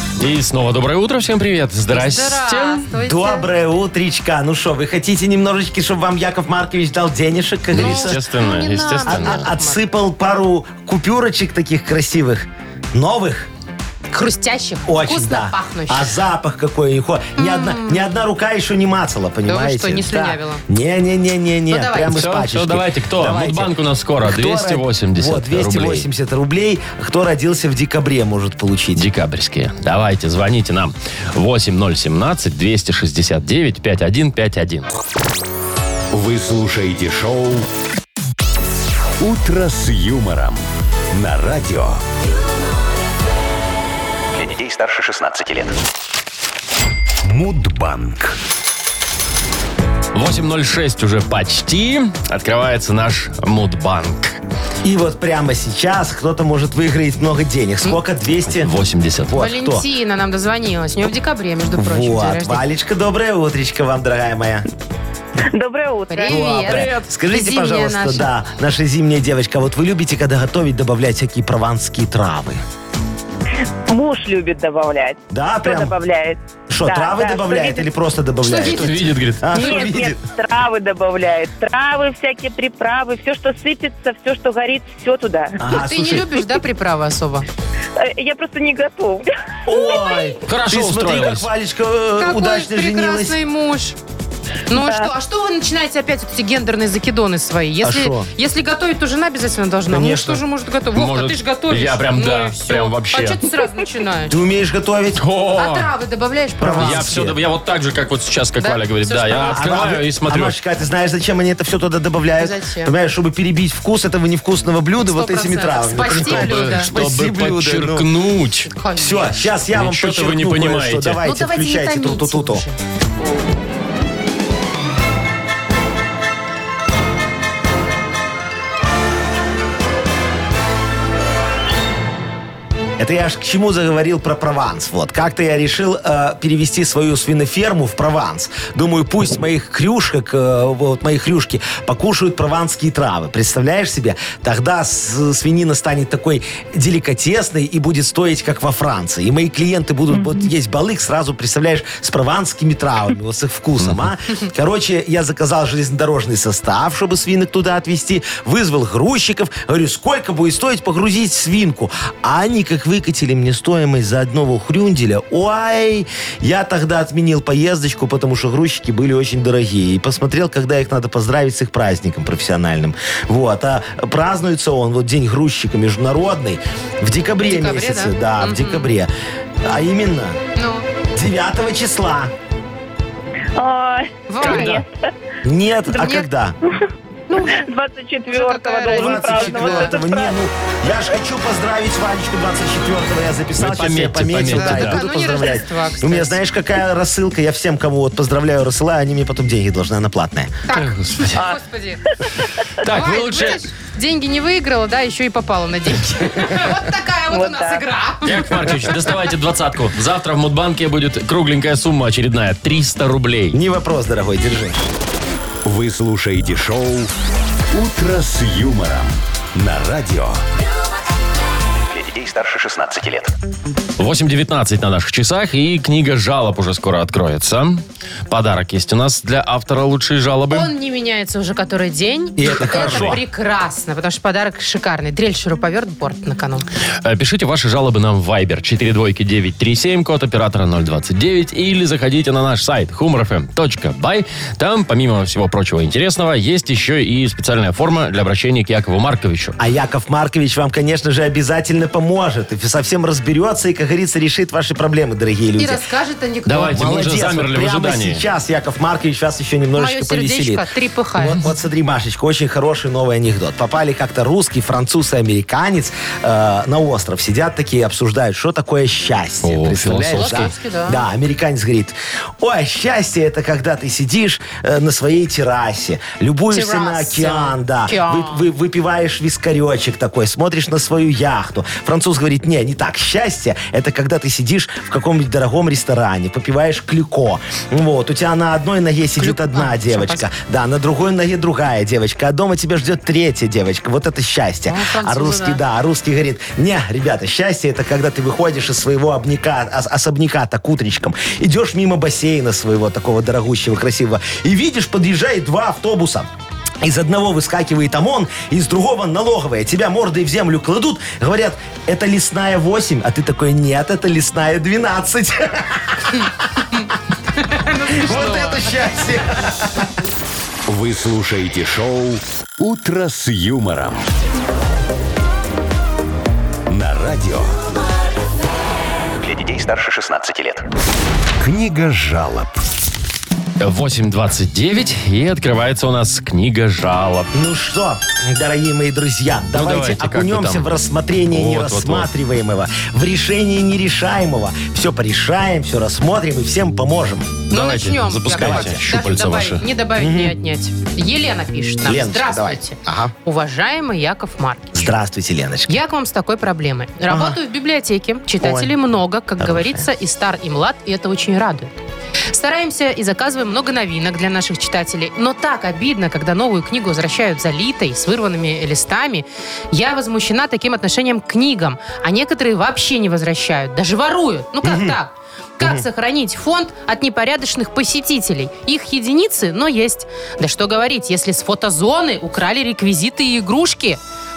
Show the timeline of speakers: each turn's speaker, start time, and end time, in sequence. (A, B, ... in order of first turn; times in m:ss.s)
0:00.2-0:02.9 A
0:01.9-0:03.5 B
0:03.0-0:08.2 C
0:07.7-0:09.5 A
0:07.7-0:09.8 B
0:09.1-0:13.5 C
0:14.1-0:16.1 B
0:14.9-0:29.1 C
0:17.4-0:18.1 B
0:19.5-0:20.6 B
0:21.7-0:22.2 B
0:22.1-0:26.1 A
0:29.0-0:34.9 A
0:36.1-0:37.7 D
0:39.2-0:42.0 D
0:44.3-0:45.8 E
0:47.2-0:48.4 D
0:50.1-0:54.4 A
0:54.8-0:58.7 C
0:58.5-0:59.4 A
0:59.3-0:59.8 C
0:59.4-1:02.6 B
1:01.8-1:04.7 C
1:05.5-1:06.6 F
1:06.1-1:08.3 B
1:06.3-1:12.6 C
1:13.9-1:17.9 F
1:15.3-1:16.0 C
1:16.7-1:20.2 C
1:18.4-1:19.0 B
1:18.6-1:19.5 A
1:19.5-1:25.7 F
1:19.5-1:20.0 B
1:25.6-1:26.3 C
1:25.7-1:27.5 B
1:28.0-1:30.4 F
1:29.6-1:33.4 C
1:30.5-1:31.5 A
1:32.2-1:34.0 B
1:34.7-1:44.4 B
1:34.7-1:35.1 F
1:37.8-1:38.3 C
1:39.9-1:40.4 C
1:40.9-1:43.4 A
1:44.3-1:45.2 C
1:45.2-1:45.9 A
1:45.6-1:47.2 B
1:46.6-1:47.4 C
1:46.8-1:50.6 A
1:48.6-1:49.9 B
1:49.4-1:58.1 C
1:52.4-1:52.9 B
1:55.0-1:56.9 B
1:56.1-1:58.7 A
1:58.7-1:59.4 B
1:59.0-2:02.6 C
1:59.7-2:01.2 A
2:01.2-2:02.8 B
2:13.0-2:59.1 C
2:33.8-2:34.1 A
2:57.4-2:58.9 B
2:59.6-3:00.4 C
3:00.6-3:00.9 B
3:01.1-3:02.3 C
3:03.6-3:04.9 F
3:04.3-3:04.8 B
3:04.5-3:04.8 A
3:05.4-3:06.6 C
3:05.9-3:06.2 F
3:06.0-3:06.3 B
3:07.3-3:07.7 B
3:07.4-3:10.4 F
3:08.3-3:10.0 B
3:08.9-3:20.5 C
3:13.6-3:15.0 A
3:14.4-3:16.4 B
3:20.7-3:22.1 B
3:20.7-3:21.4 A
3:22.8-3:23.6 A
3:22.8-3:29.1 B
3:27.3-3:27.9 F
3:28.2-3:33.6 A
3:33.5-3:34.8 C
3:35.6-3:37.1 D
3:37.7-3:40.4 D
3:41.9-3:43.3 E
3:44.0-3:50.7 A
3:50.5-3:56.7 B
3:52.4-3:53.2 C
3:52.5-3:53.2 A
3:57.0-4:09.6 A
4:09.6-4:15.8 C
4:15.6-4:16.8 B
4:16.5-4:18.2 A
4:16.7-5:06.3 C
4:19.8-4:21.4 B
4:29.4-4:30.5 A
4:30.1-4:31.0 B
4:36.5-4:38.5 B
4:49.2-4:50.3 B
4:54.7-4:55.6 B
5:06.8-5:16.3 C
5:17.4-5:18.7 B
5:17.9-5:19.9 C
5:20.7-5:24.1 D
5:26.7-5:27.6 D
5:29.2-5:30.7 E
5:31.4-5:32.6 D
5:33.6-5:37.3 A
5:37.3-5:47.4 C
5:39.5-5:40.8 A
5:41.3-5:42.1 A
5:47.5-5:54.9 B
5:47.5-5:49.7 A
5:48.3-5:48.9 C
5:50.0-5:50.4 C
5:51.8-5:53.1 C
5:54.7-5:55.8 C
5:55.7-6:01.7 B
5:57.1-5:57.4 C
5:58.4-5:58.8 C
5:59.4-5:59.9 C
6:02.3-6:24.0 B
6:14.6-6:15.0 C
6:15.6-6:15.8 C